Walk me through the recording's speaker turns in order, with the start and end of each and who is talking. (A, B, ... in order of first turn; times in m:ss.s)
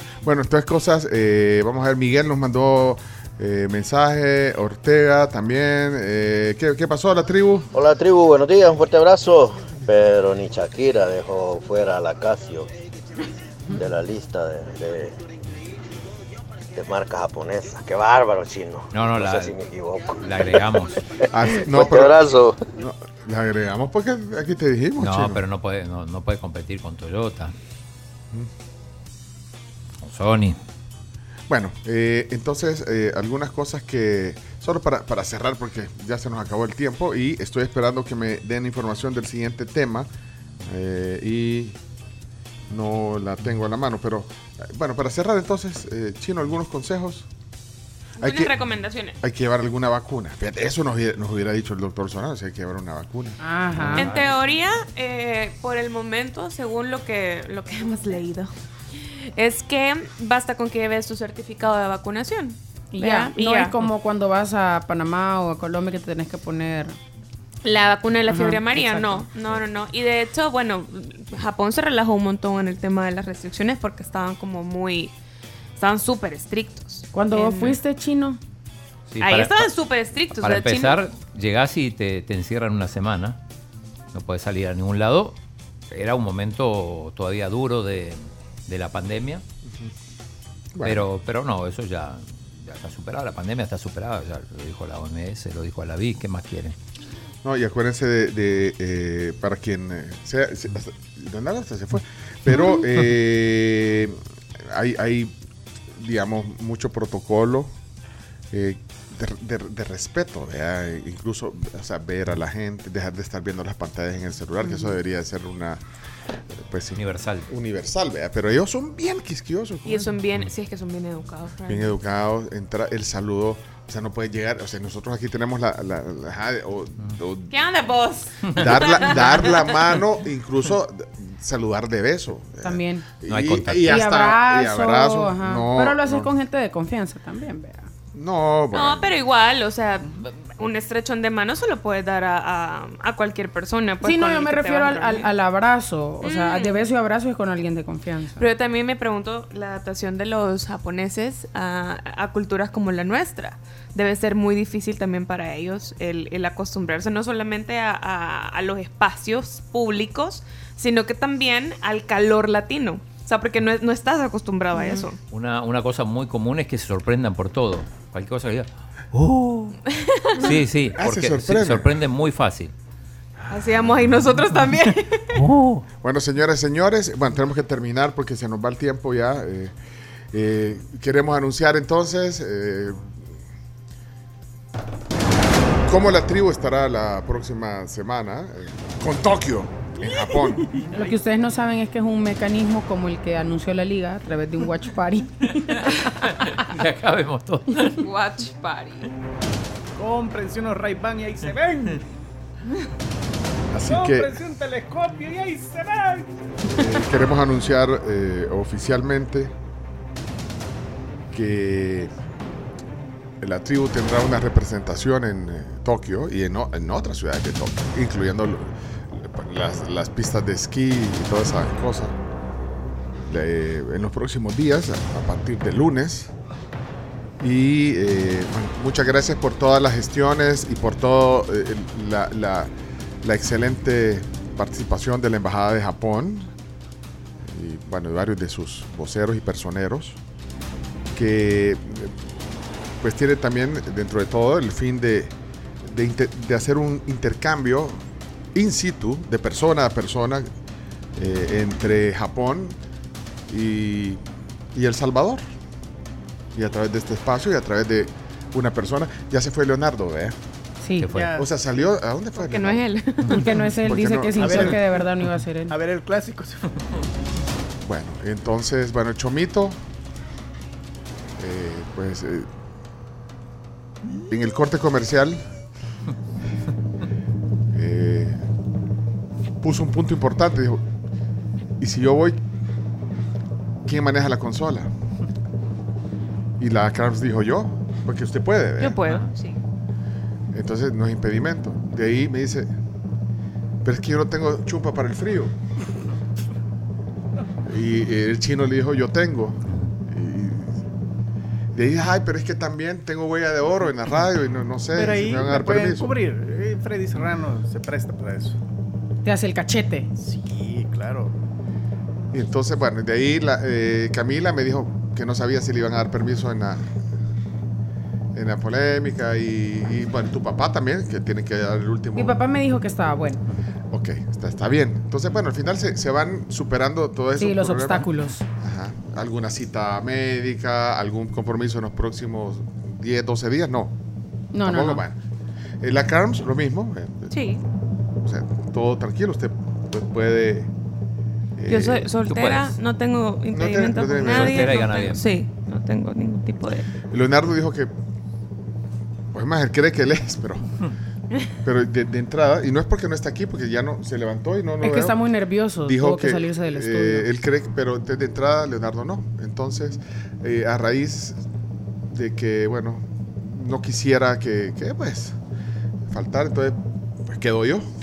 0:00.2-0:07.7 A
0:07.7-0:12.7 B
0:13.7-0:15.2 B
0:16.7-0:20.7 B
0:18.9-0:19.5 C
0:20.2-0:20.9 C
0:21.3-0:22.2 A
0:21.4-0:22.6 B
0:22.7-0:25.4 A
0:25.0-0:27.5 C
0:30.0-0:30.6 C
0:31.5-0:40.1 A
0:40.6-0:41.8 A
0:42.7-0:47.3 A
0:48.2-0:49.2 D
0:48.2-0:48.5 A
0:49.2-0:53.4 A
0:53.4-0:54.1 E
0:53.8-0:54.3 C
0:53.9-0:58.5 D
0:59.3-1:03.7 D
1:02.9-1:07.0 E
1:07.6-1:15.1 D
1:08.3-1:09.3 E
1:15.8-1:17.8 D
1:17.1-1:18.4 E
1:19.1-1:19.7 C
1:19.2-1:21.0 D
1:20.3-1:23.4 C
1:24.1-1:25.4 C
1:25.9-1:29.4 C
1:30.7-1:31.1 A
1:30.8-1:36.8 C
1:37.4-1:45.3 A
1:46.0-1:47.7 A
1:48.5-1:55.8 A
1:56.6-2:00.1 A
1:57.0-1:57.5 C
1:59.8-2:02.0 D
2:01.7-2:07.5 A
2:07.5-2:09.8 D
2:08.5-2:16.3 A
2:12.6-2:13.0 E
2:13.3-2:14.0 C
2:13.9-2:17.9 E
2:18.1-2:19.1 A
2:18.7-2:25.3 D
2:24.0-2:28.4 E
2:26.2-2:26.8 D
2:28.4-2:45.2 D
2:45.3-2:48.7 C
2:50.1-2:50.6 D
2:50.4-2:52.7 C
2:50.9-2:51.9 A
2:53.5-2:55.4 D
2:55.9-2:59.7 A
3:00.3-3:03.1 A
3:05.8-3:10.7 A
3:10.9-3:15.8 E
3:16.2-3:18.0 C
3:18.0-3:19.1 D
3:20.0-3:22.0 F
3:23.7-3:24.3 A
3:23.9-3:26.3 F
3:26.7-3:29.5 A
3:31.3-3:32.1 A
3:33.4-3:42.2 A
3:43.2-3:46.3 A
3:47.4-3:56.5 A
3:57.4-4:00.2 A
4:01.1-4:02.2 A
4:03.0-4:05.3 A
4:05.8-4:08.0 A
4:08.5-4:10.5 A
4:11.2-4:12.8 A
4:13.5-4:14.2 A
4:14.7-4:15.4 A
4:16.5-4:20.4 A
4:20.8-4:21.1 E
4:21.0-4:21.4 C
4:21.1-4:21.5 F
4:21.3-4:22.8 A
4:22.4-4:23.5 D
4:23.3-4:25.8 E
4:23.8-4:24.8 A
4:24.4-4:25.0 F
4:25.7-4:26.6 F
4:27.8-4:29.8 A
4:31.4-4:32.5 A
4:34.3-4:35.4 A
4:37.7-4:38.4 A
4:39.6-4:40.8 A
4:41.8-4:42.4 A
4:43.8-4:44.9 A
4:46.6-4:49.0 A
4:48.8-4:49.6 D
4:50.5-4:52.7 A
4:53.8-4:55.5 A
4:57.6-5:00.8 A
5:01.7-5:06.1 A
5:04.9-5:08.6 F
5:09.2-5:10.1 E
5:10.2-5:11.3 F
5:12.3-5:16.8 A
5:18.3-5:22.4 A
5:22.2-5:23.4 E
5:23.9-5:28.1 A
5:27.4-5:28.4 E
5:28.6-5:33.9 A
5:34.5-5:35.0 E
5:34.6-5:35.2 A
5:35.8-5:37.4 A
5:37.3-5:37.6 D
5:38.2-5:40.7 A
5:41.6-5:42.1 A
5:41.7-5:46.9 D
5:42.3-5:42.8 C
5:43.5-5:44.7 A
5:44.2-5:45.2 C
5:47.1-5:47.9 A
5:49.3-5:50.6 A
5:51.6-5:55.2 A
5:54.8-5:57.3 E
5:55.8-6:01.4 A
6:02.1-6:05.4 A
6:06.1-6:07.8 A